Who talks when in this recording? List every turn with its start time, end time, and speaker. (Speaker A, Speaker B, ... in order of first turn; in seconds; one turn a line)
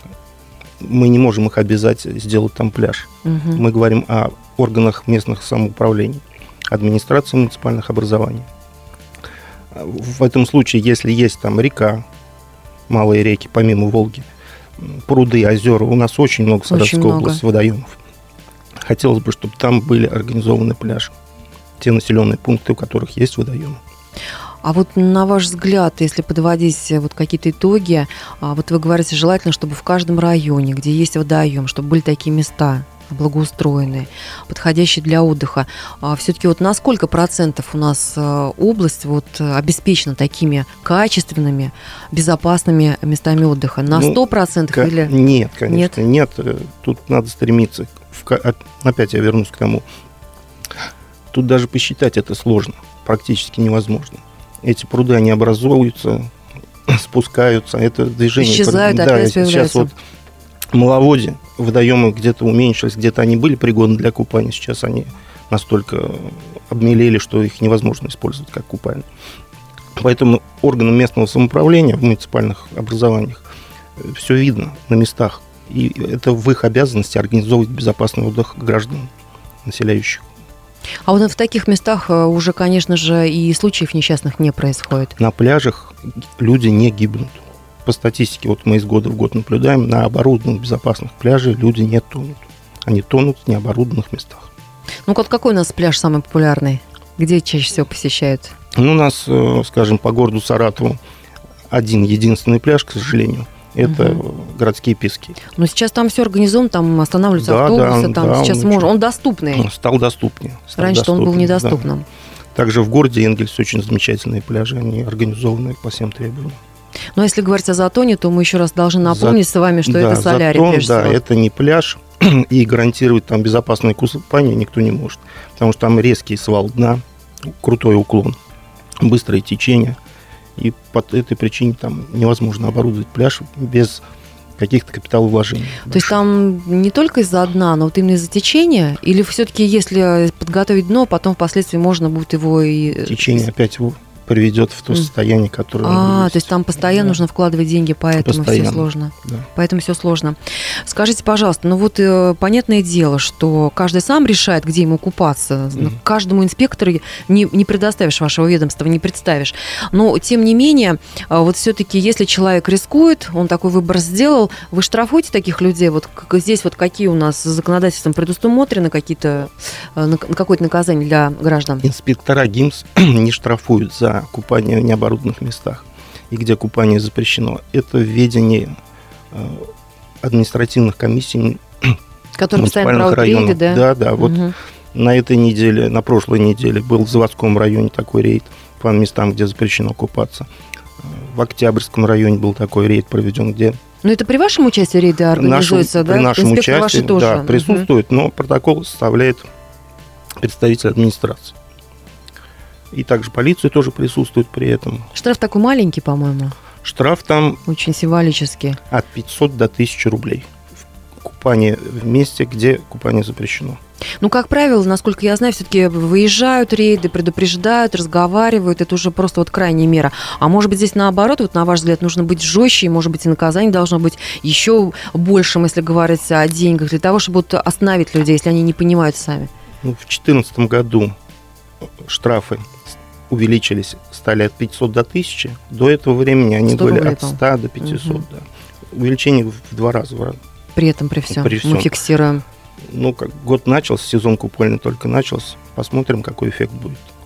Speaker A: 0.8-8.5
Speaker B: 3.2-3.6
Speaker A: 9.7-12.1
Speaker A: 12.9-14.3
Speaker A: 14.8-18.0
Speaker B: 16.7-17.4
Speaker A: 18.8-21.1
Speaker A: 21.8-23.8
Speaker B: 24.6-45.1
Speaker A: 43.9-44.2
Speaker A: 44.7-49.8
Speaker B: 45.7-46.0
Speaker A: 51.3-56.3
Speaker A: 56.9-59.9
Speaker B: 58.4-59.9
Speaker A: 60.7-69.1
Speaker A: 70.0-73.4
Speaker A: 74.0-79.1
Speaker A: 79.7-80.3
Speaker B: 81.0-85.1
Speaker A: 85.2-94.5
Speaker B: 95.1-98.5
Speaker A: 98.8-101.0
Speaker A: 101.7-105.4
Speaker B: 103.8-104.2
Speaker B: 105.5-109.7
Speaker A: 107.4-108.9
Speaker A: 109.5-111.9
Speaker B: 110.8-112.1
Speaker A: 112.5-116.6
Speaker B: 117.2-121.2
Speaker A: 119.0-127.0
Speaker A: 127.6-128.4
Speaker A: 129.0-130.0
Speaker A: 130.6-134.0
Speaker A: 134.6-136.2
Speaker B: 135.9-143.5
Speaker A: 142.9-147.2
Speaker B: 145.8-171.9
Speaker A: 148.2-149.5
Speaker A: 171.8-178.8
Speaker A: 179.3-179.7
Speaker A: 180.2-182.0
Speaker B: 182.3-184.5
Speaker A: 182.5-190.5
Speaker A: 191.0-193.8
Speaker B: 194.0-197.9
Speaker A: 195.3-199.5
Speaker A: 200.4-201.5
Speaker A: 202.9-205.1
Speaker B: 205.1-206.6
Speaker A: 206.8-207.6
Speaker B: 207.7-208.8
Speaker A: 208.9-210.5
Speaker A: 211.2-213.8
Speaker B: 214.2-229.5
Speaker A: 229.8-231.2
Speaker A: 232.0-232.8
Speaker A: 233.3-240.4
Speaker B: 236.7-238.2
Speaker B: 240.8-242.4
Speaker A: 241.3-241.9
Speaker A: 242.9-247.1